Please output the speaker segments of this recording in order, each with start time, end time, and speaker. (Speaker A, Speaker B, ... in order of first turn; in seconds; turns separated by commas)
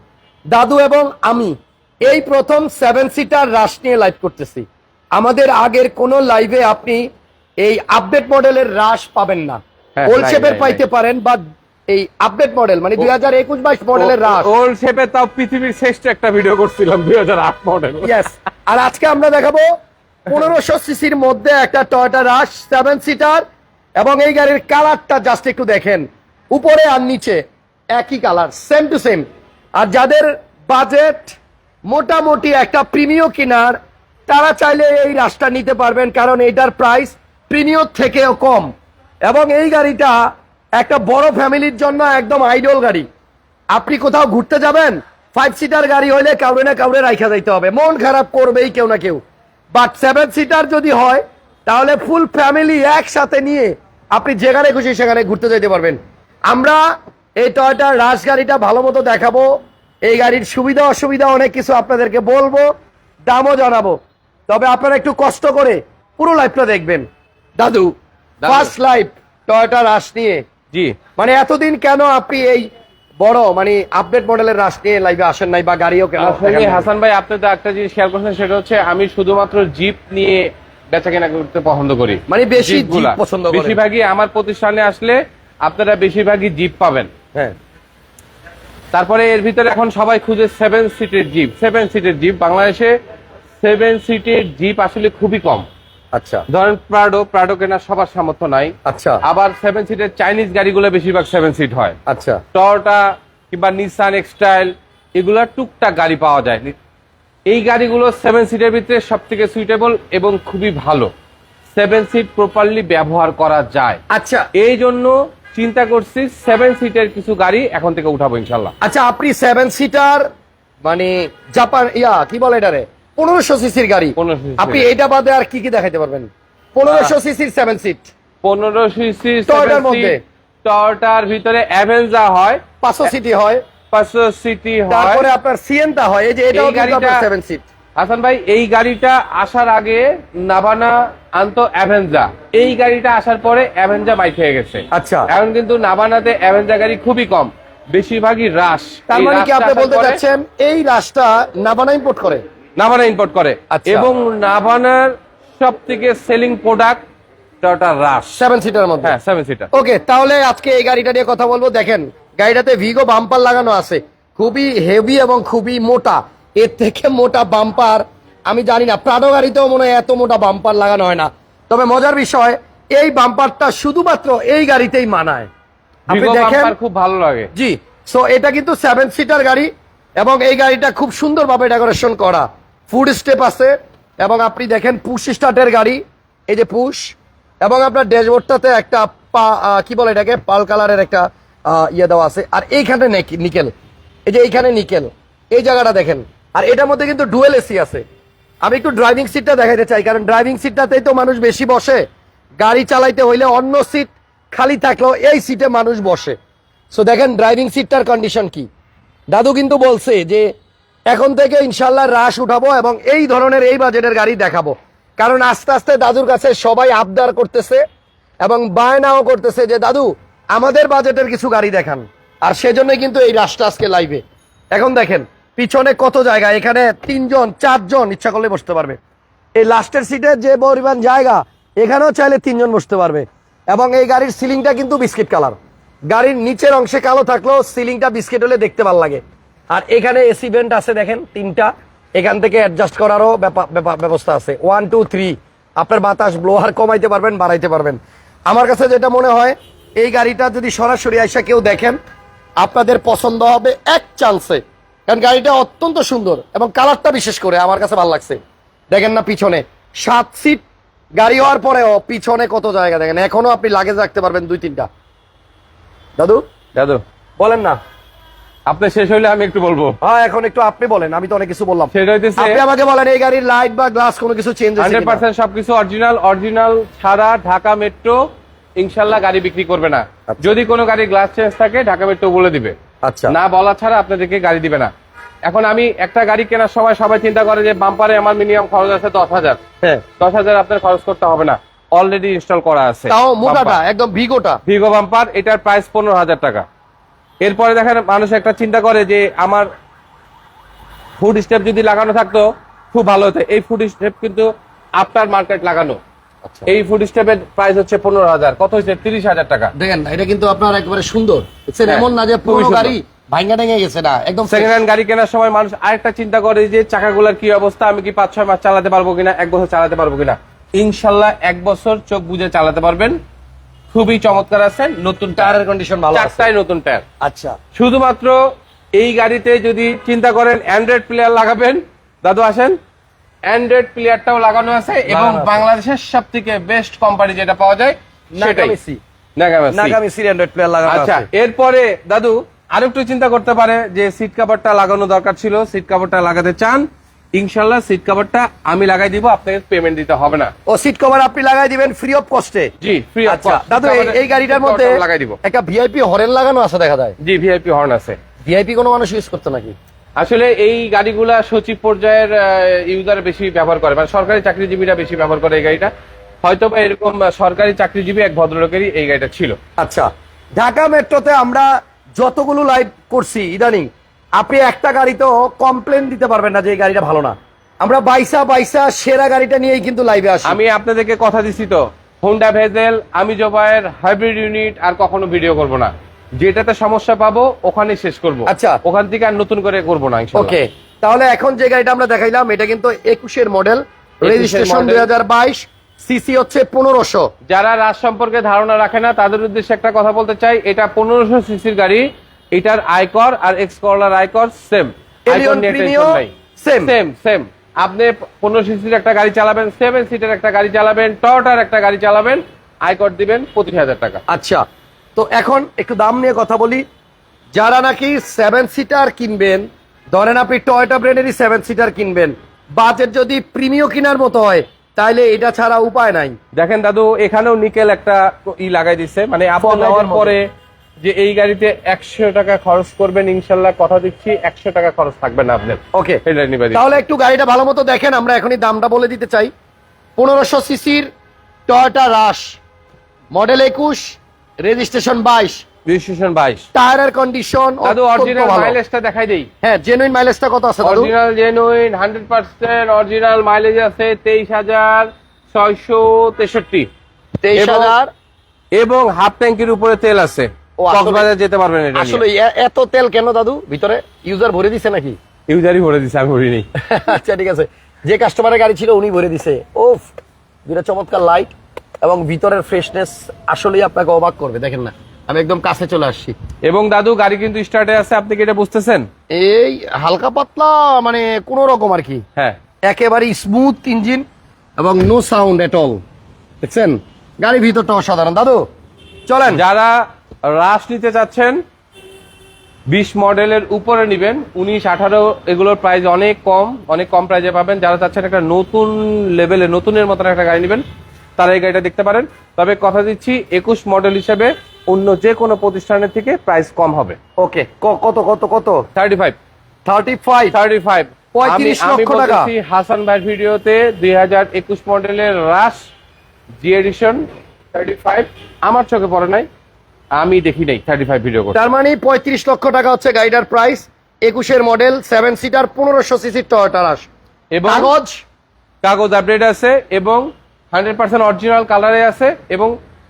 Speaker A: 0.5-7.0, Speaker A: 7.6-14.5, Speaker B: 10.0-10.8, Speaker B: 13.9-18.2, Speaker A: 18.0-19.7, Speaker A: 20.3-23.4, Speaker A: 24.0-27.4, Speaker A: 27.9-29.2, Speaker A: 29.8-38.7, Speaker A: 39.2-43.0, Speaker A: 43.7-49.2, Speaker A: 49.7-56.0, Speaker A: 56.5-56.8, Speaker A: 57.4-59.5, Speaker A: 60.1-62.7, Speaker A: 63.2-67.0, Speaker A: 67.6-67.9, Speaker B: 68.4-68.7, Speaker A: 68.5-70.4, Speaker B: 70.7-71.0, Speaker A: 71.2-76.9, Speaker B: 76.2-87.1, Speaker A: 82.3-83.8, Speaker B: 88.9-92.9, Speaker B: 93.6-95.7, Speaker A: 96.1-96.4, Speaker B: 96.5-102.0, Speaker A: 98.8-99.2, Speaker A: 102.1-102.4, Speaker B: 102.5-106.8, Speaker B: 107.5-111.1, Speaker B: 111.7-114.0, Speaker A: 114.1-114.5, Speaker B: 114.5-118.7, Speaker A: 118.8-120.3, Speaker A: 120.8-128.1, Speaker B: 124.2-124.9, Speaker B: 126.9-127.1, Speaker B: 128.4-132.6, Speaker A: 129.5-130.2, Speaker A: 132.8-133.6, Speaker B: 133.9-135.2, Speaker A: 134.9-137.7, Speaker B: 136.5-137.2, Speaker B: 138.0-150.2, Speaker A: 144.9-145.3, Speaker A: 149.1-152.4, Speaker B: 152.8-157.0, Speaker A: 153.7-154.1, Speaker B: 157.6-158.3, Speaker A: 158.3-159.1, Speaker B: 159.0-159.7, Speaker A: 159.7-175.5, Speaker A: 176.1-176.7, Speaker B: 176.1-177.5, Speaker A: 177.5-193.7, Speaker A: 194.3-198.0, Speaker A: 198.6-202.0, Speaker A: 202.6-206.3, Speaker A: 206.9-208.7, Speaker A: 209.3-210.5, Speaker A: 211.1-217.8, Speaker A: 218.4-224.2, Speaker A: 224.7-229.0, Speaker A: 229.6-235.6, Speaker A: 236.1-252.0, Speaker A: 252.6-258.4, Speaker A: 258.9-260.6, Speaker A: 261.2-264.9, Speaker A: 266.2-266.4, Speaker B: 266.8-267.0, Speaker A: 267.4-267.8, Speaker B: 268.7-270.0, Speaker A: 270.0-275.2, Speaker B: 271.9-272.6, Speaker B: 274.8-278.2, Speaker B: 278.8-282.8, Speaker A: 280.3-280.5, Speaker A: 283.0-283.3, Speaker B: 283.3-284.9, Speaker B: 285.4-289.6, Speaker B: 290.2-293.8, Speaker A: 293.1-294.6, Speaker B: 294.6-296.6, Speaker B: 297.4-299.7, Speaker B: 301.2-306.0, Speaker B: 306.7-309.7, Speaker A: 309.7-314.8, Speaker B: 311.9-312.9, Speaker B: 314.5-323.2, Speaker B: 323.9-325.5, Speaker A: 325.4-326.5, Speaker B: 326.1-327.0, Speaker A: 327.2-327.6, Speaker B: 327.7-328.4, Speaker B: 328.9-332.8, Speaker B: 333.4-338.8, Speaker A: 335.1-335.6, Speaker A: 338.3-339.0, Speaker B: 339.4-340.0, Speaker A: 339.7-341.3, Speaker B: 340.8-350.5, Speaker A: 350.7-352.7, Speaker B: 352.8-355.4, Speaker A: 353.2-357.1, Speaker B: 357.2-358.2, Speaker A: 358.4-359.7, Speaker B: 360.2-365.9, Speaker B: 366.4-369.6, Speaker A: 369.8-380.6, Speaker B: 380.4-390.5, Speaker A: 388.5-388.8, Speaker A: 390.3-397.3, Speaker B: 394.2-395.1, Speaker B: 397.5-414.2, Speaker A: 405.3-406.9, Speaker A: 414.3-414.6, Speaker A: 415.1-416.8, Speaker A: 417.5-426.4, Speaker B: 426.5-430.5, Speaker A: 429.6-430.4, Speaker B: 431.0-437.0, Speaker A: 435.9-436.2, Speaker A: 436.7-439.5, Speaker A: 440.2-441.1, Speaker A: 441.7-442.6, Speaker A: 443.3-445.6, Speaker B: 445.9-446.7, Speaker A: 446.7-448.8, Speaker B: 447.8-449.5, Speaker A: 449.6-451.1, Speaker B: 450.8-456.9, Speaker A: 457.4-458.1, Speaker B: 457.5-457.9, Speaker B: 458.7-462.2, Speaker A: 460.8-461.2, Speaker A: 461.9-465.2, Speaker B: 465.5-466.6, Speaker A: 466.8-470.1, Speaker A: 470.7-476.3, Speaker B: 476.6-479.1, Speaker A: 479.3-482.2, Speaker A: 482.9-484.2, Speaker A: 484.8-486.0, Speaker A: 486.6-488.6, Speaker A: 489.3-489.6, Speaker B: 489.5-491.6, Speaker B: 492.9-500.8, Speaker B: 501.4-507.2, Speaker A: 507.4-508.8, Speaker B: 508.9-509.4, Speaker A: 509.9-510.6, Speaker B: 510.5-515.9, Speaker A: 511.3-512.5, Speaker B: 516.6-519.5, Speaker B: 520.1-521.6, Speaker A: 521.5-527.1, Speaker B: 527.5-527.9, Speaker A: 527.6-528.2, Speaker B: 528.8-532.7